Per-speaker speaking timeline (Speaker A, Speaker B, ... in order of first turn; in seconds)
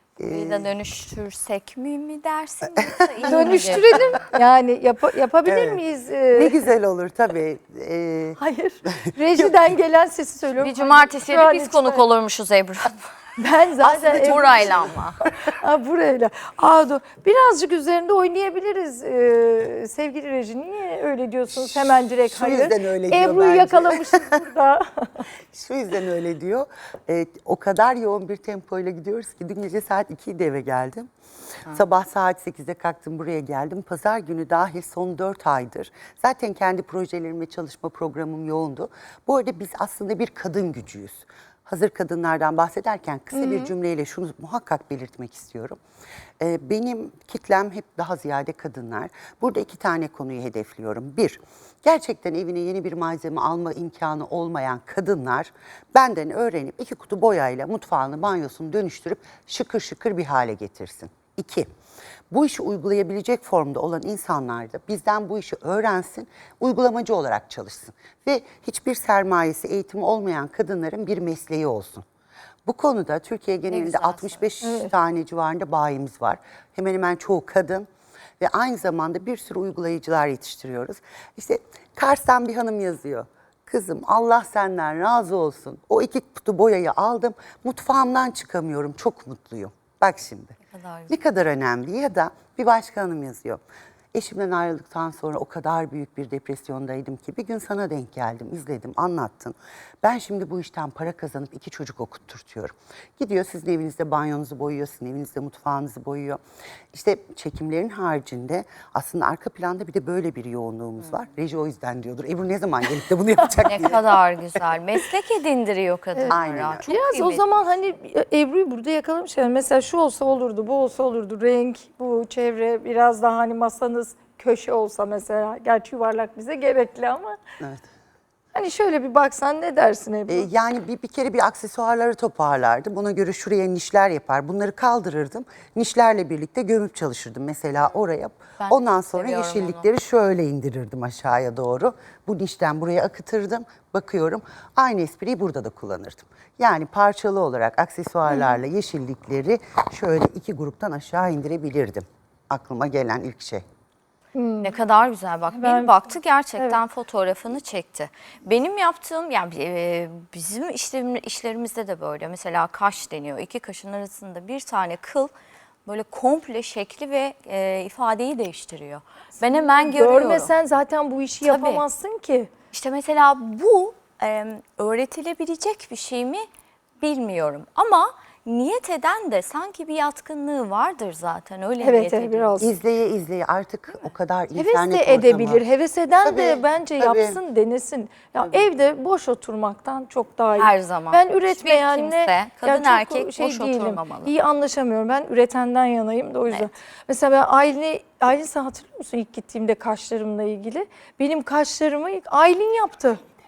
Speaker A: 0.2-0.7, 3.2-4.0, 5.4-5.8, 6.3-9.5, 13.8-15.3, 21.5-24.4, 25.5-31.1, 31.7-45.8, 46.4-61.7, 62.3-72.0, 72.6-77.9, 78.4-90.6, 91.1-93.6, 94.1-106.4, 106.9-114.0, 116.3-116.8, 127.6-127.9, 130.3-153.6, 182.6-185.6, 186.2-187.4
Speaker B: 0.3-4.2, 10.6-13.1, 14.1-15.2, 73.7-74.5, 90.7-91.2, 113.6-117.4, 138.6-139.9, 154.6-165.3, 165.8-170.5, 171.4-171.8, 172.7-176.4, 177.0-182.5, 190.5-194.3
Speaker C: 3.2-6.6, 8.4-12.1, 13.4-25.2, 43.3-43.7, 74.6-74.9, 116.2-127.4, 128.5-130.5, 154.3-154.7, 155.5-156.0, 169.5-172.5, 181.8-182.7, 184.6-203.2